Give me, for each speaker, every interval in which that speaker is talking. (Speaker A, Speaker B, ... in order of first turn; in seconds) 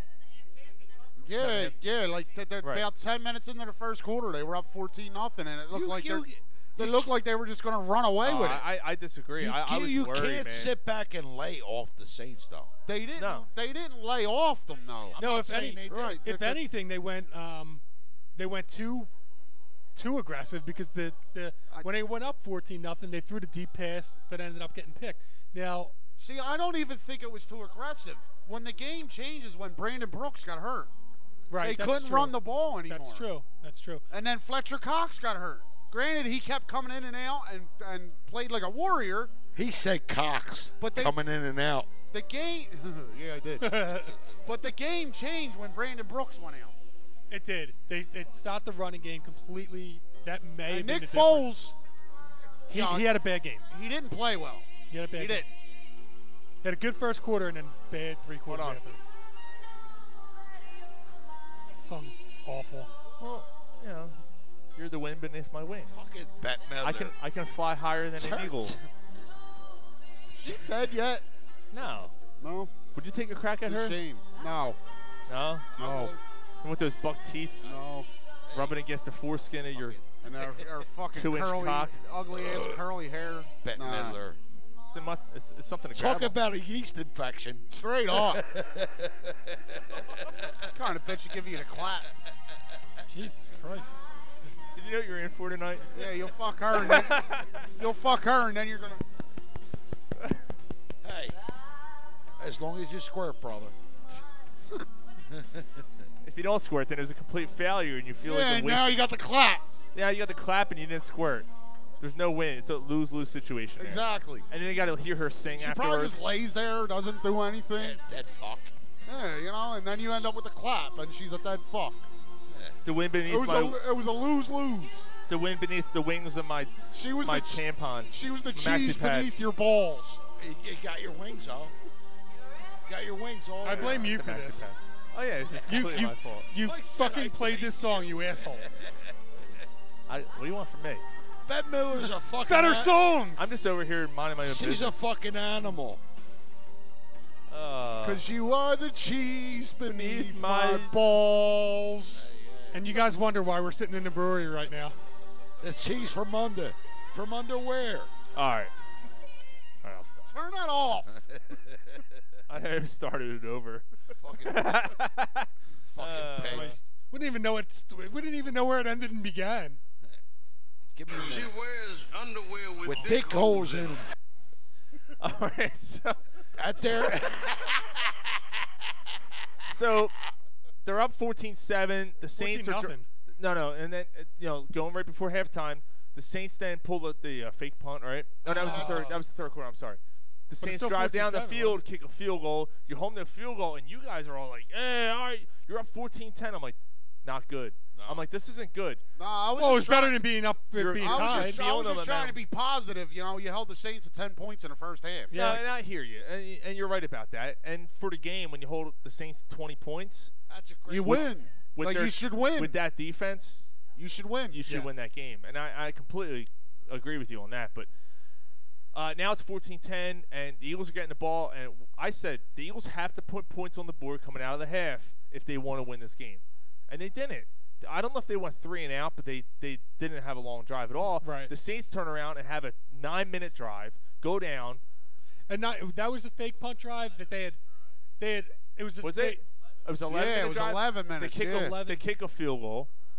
Speaker A: 1.2-8.7, 12.9-15.2, 15.9-16.6, 26.2-30.9, 31.6-33.3, 34.1-39.3, 40.8-41.2, 42.1-43.8, 44.5-46.7, 50.7-51.8, 52.7-53.2, 53.7-55.4, 70.4-71.2, 72.4-72.7, 73.6-74.8, 75.8-76.2, 77.6-78.1, 80.2-84.2, 87.7-88.4, 90.7-92.1, 96.0-99.0, 108.2-109.7, 113.8-114.5, 115.6-118.0, 119.1-122.1, 123.3-125.1, 126.9-130.2, 148.0-152.3, 160.3-161.1, 188.4-189.2, 199.2-200.2, 201.0-205.4, 210.9-212.8, 214.0-214.7, 240.1-241.8
Speaker B: 1.4-1.8, 2.6-2.9, 8.2-10.7, 13.2-13.5, 58.5-58.8, 63.2-64.2, 64.8-66.0, 66.8-68.8, 71.7-72.1, 72.9-74.0, 75.3-75.7, 76.6-77.7, 78.5-80.0, 81.1-82.0, 84.9-86.4, 94.8-96.0, 96.8-97.5, 106.2-109.0, 109.9-111.5, 112.0-116.2, 122.8-123.8, 125.3-129.3, 133.7-136.5, 140.1-141.0, 143.3-145.1, 147.5-148.2, 149.9-150.9, 158.3-158.7, 159.8-160.3, 162.5-163.8, 164.4-166.8, 175.2-176.2, 176.8-177.1, 179.7-180.1, 180.8-199.0, 200.8-202.4, 205.3-210.3, 211.0-213.7, 214.5-217.9, 218.9-234.8, 239.0-242.9
Speaker C: 5.7-7.1, 9.4-12.7, 15.2-16.3, 39.5-41.9, 65.9-67.2, 68.2-68.9, 75.7-76.2, 78.5-78.8, 79.8-80.6, 82.4-82.8, 83.6-84.4, 85.9-90.6, 101.0-101.4, 102.4-103.8, 105.3-105.9, 117.8-118.7, 122.5-122.8, 130.4-131.7, 132.9-134.1, 136.6-138.9, 141.5-143.0, 144.4-146.0, 152.1-153.1, 155.6-158.1, 161.3-162.0, 164.2-164.9, 165.9-166.8, 170.9-171.6, 172.8-174.0, 176.6-178.2, 197.9-198.3, 210.5-211.3
Speaker D: 15.2-17.8, 18.4-19.1, 19.9-26.0, 31.5-34.0, 43.6-44.2, 47.3-51.5, 52.7-53.6, 54.9-55.5, 56.6-59.0, 61.8-62.9, 93.1-94.0, 133.6-134.7, 135.6-138.7, 142.4-143.5, 152.7-154.9, 166.4-169.8, 182.4-183.1, 188.6-189.1, 190.6-191.8, 199.6-201.6, 205.3-205.7, 231.2-231.5, 235.5-237.6, 238.2-239.4, 241.5-242.0
Speaker E: 171.2-173.8